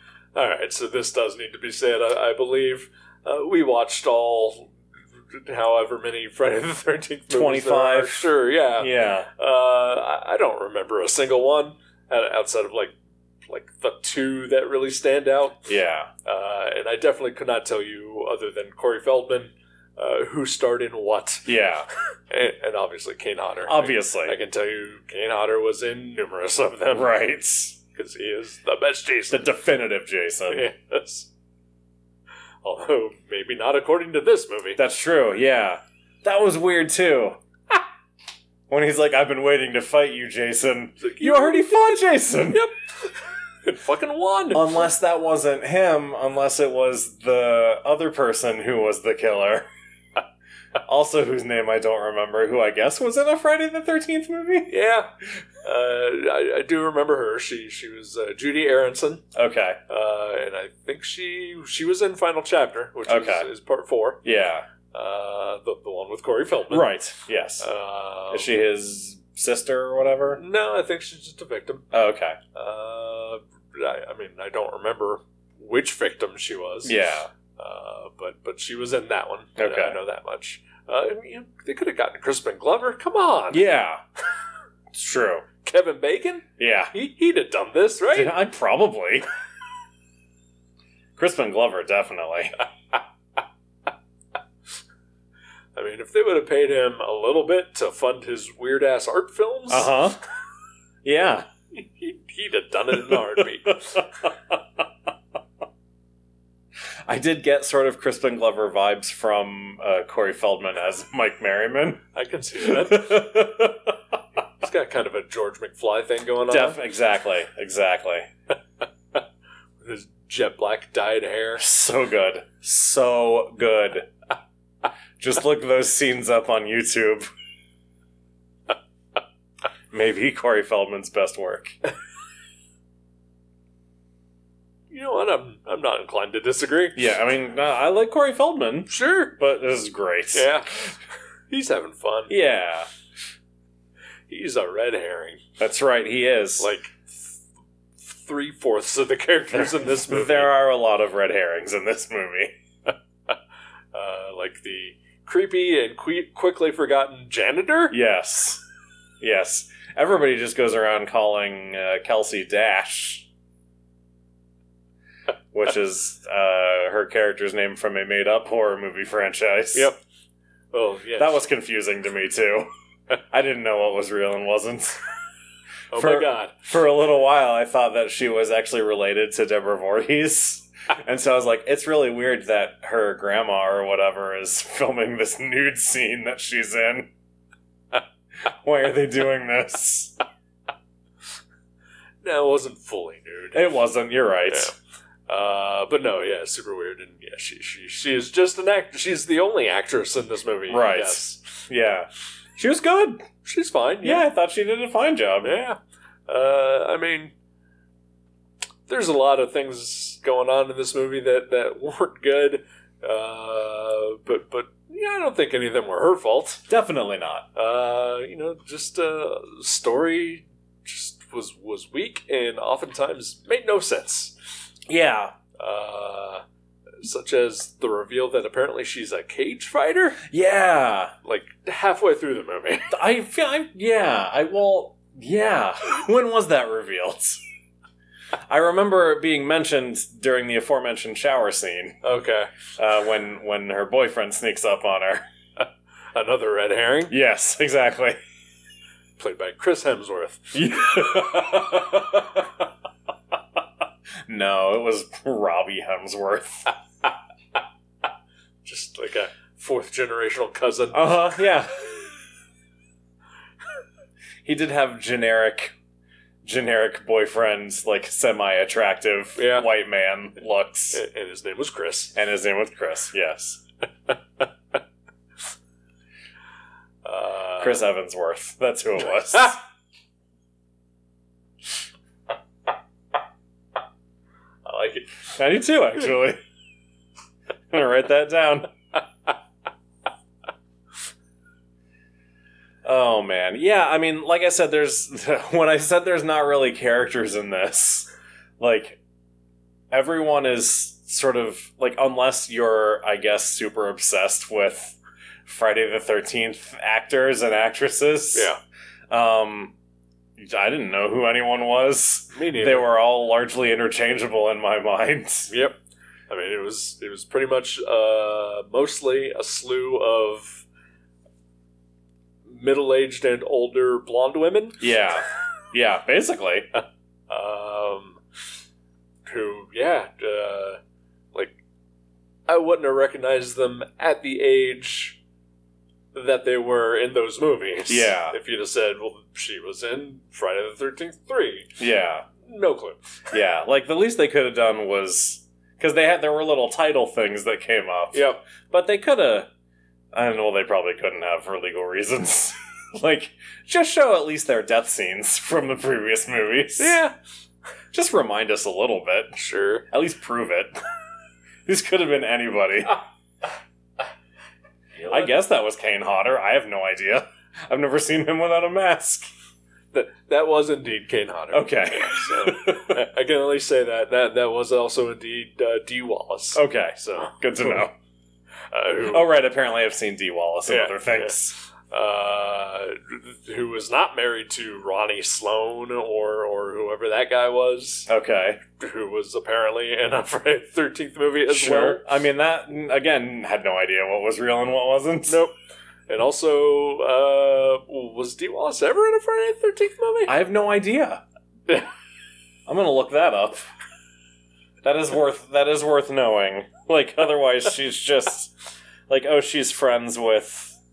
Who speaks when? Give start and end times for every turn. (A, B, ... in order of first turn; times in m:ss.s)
0:00.3-0:04.7 A
0:05.3-0:12.9 A
0:07.3-0:09.3 B
0:13.4-0:15.6 A
0:15.7-0:16.1 B
0:16.2-0:21.5 A
0:21.4-0:21.9 B
0:22.3-0:27.1 A
0:23.6-0:24.4 B
0:26.9-0:27.8 B
0:27.9-0:29.5 A
0:29.3-0:30.6 B
0:30.5-0:31.3 A
0:32.6-0:34.8 A
0:34.8-0:37.8 B
0:38.7-0:42.6 B
0:41.0-0:44.9 A
0:44.5-0:49.7 B
0:50.8-0:54.7 B
0:54.7-0:55.1 A
0:55.6-0:59.2 A
0:59.3-0:59.8 B
0:59.9-1:04.2 A
1:03.1-1:03.5 B
1:04.2-1:04.6 B
1:04.9-1:06.9 A
1:06.7-1:07.7 B
1:07.6-1:08.5 A
1:08.3-1:10.4 B
1:10.3-1:11.8 A
1:11.9-1:12.4 B
1:12.5-1:17.0 A
1:16.8-1:17.3 B
1:17.5-1:23.6 A
1:19.6-1:20.0 B
1:23.5-1:24.0 B
1:24.9-1:25.4 B
1:25.6-1:28.4 A
1:26.6-1:26.9 B
1:28.1-1:29.3 B
1:31.2-1:32.6 B
1:35.7-1:39.9 A
1:39.7-1:40.2 B
1:41.0-1:41.4 B
1:41.7-1:44.1 A
1:42.9-1:44.3 B
1:47.0-1:52.0 B
1:52.1-1:53.3 A
1:52.6-1:54.0 B
1:54.6-1:56.8 A
1:56.5-1:58.3 B
1:59.8-2:01.6 A
2:01.6-2:04.1 B
2:05.2-2:07.3 B
2:09.9-2:11.7 B
2:14.9-2:17.0 A
2:16.9-2:20.9 B
2:18.9-2:19.4 A
2:20.3-2:20.9 A
2:21.5-2:22.4 A
2:22.3-2:22.9 B
2:24.3-2:25.4 A
2:25.6-2:26.7 B
2:26.6-2:27.4 A
2:28.0-2:30.5 A
2:29.6-2:32.5 B
2:33.9-2:38.0 A
2:37.9-2:38.6 B
2:39.2-2:43.3 B
2:45.5-2:49.9 B
2:50.7-2:51.4 A
2:51.2-2:52.7 B
2:53.3-2:55.0 B
2:55.9-2:56.6 A
2:55.9-3:07.1 B
3:08.5-3:10.2 B
3:12.2-3:13.6 A
3:13.5-3:14.7 B
3:15.3-3:21.6 A
3:20.7-3:23.2 B
3:23.4-3:24.2 A
3:24.0-3:25.6 B
3:25.4-3:27.3 A
3:28.9-3:36.6 A
3:36.7-3:37.4 B
3:37.5-3:44.3 A
3:44.9-3:45.3 B
3:45.6-3:46.4 A
3:47.0-3:50.2 A
3:50.2-3:51.1 B
3:51.2-3:52.9 A
3:52.9-3:57.4 B
3:58.5-4:02.0 B
4:02.0-4:02.5 A
4:02.8-4:05.2 B
4:05.6-4:07.1 A
4:07.1-4:08.2 B
4:09.2-4:10.8 A
4:10.5-4:12.6 B
4:14.3-4:16.7 B
4:18.6-4:21.2 A
4:20.9-4:22.0 B
4:24.4-4:25.7 B
4:26.4-4:31.0 B
4:29.4-4:29.7 A
4:30.9-4:32.1 A
4:32.1-4:33.6 B
4:37.0-4:37.8 A
4:37.6-4:39.6 B
4:44.6-4:45.2 A
4:45.3-4:46.4 B
4:47.7-4:48.7 B
4:52.8-4:58.1 B
4:58.6-4:59.0 B
4:59.9-5:08.5 B
5:08.3-5:08.6 A
5:09.1-5:09.7 B
5:10.4-5:15.5 B
5:12.3-5:12.9 A
5:15.5-5:15.8 A
5:16.3-5:20.6 A
5:22.4-5:24.9 A
5:24.8-5:26.7 B
5:27.3-5:28.2 A
5:29.2-5:30.8 A
5:32.5-5:35.2 A
5:36.1-5:41.8 A
5:37.9-5:38.4 B
5:41.8-5:42.2 B
5:42.4-5:43.2 A
5:43.3-5:49.5 B
5:48.1-5:48.4 A
5:50.1-5:57.0 B
5:56.8-5:57.1 A
5:57.9-5:59.4 B
5:59.3-5:59.8 A
5:59.9-6:00.7 B
6:01.6-6:03.0 B
6:05.0-6:09.3 B
6:09.9-6:17.8 A
6:11.5-6:13.0 B
6:16.5-6:17.9 B
6:18.7-6:19.3 A
6:19.1-6:21.6 B
6:20.7-6:21.4 A
6:21.9-6:28.1 A
6:28.1-6:28.6 B
6:28.8-6:32.0 A
6:31.5-6:35.4 B
6:35.3-6:35.5 A
6:36.1-6:40.3 A
6:40.3-6:41.2 B
6:42.7-6:43.7 B
6:44.8-6:48.5 B
6:49.1-6:50.8 B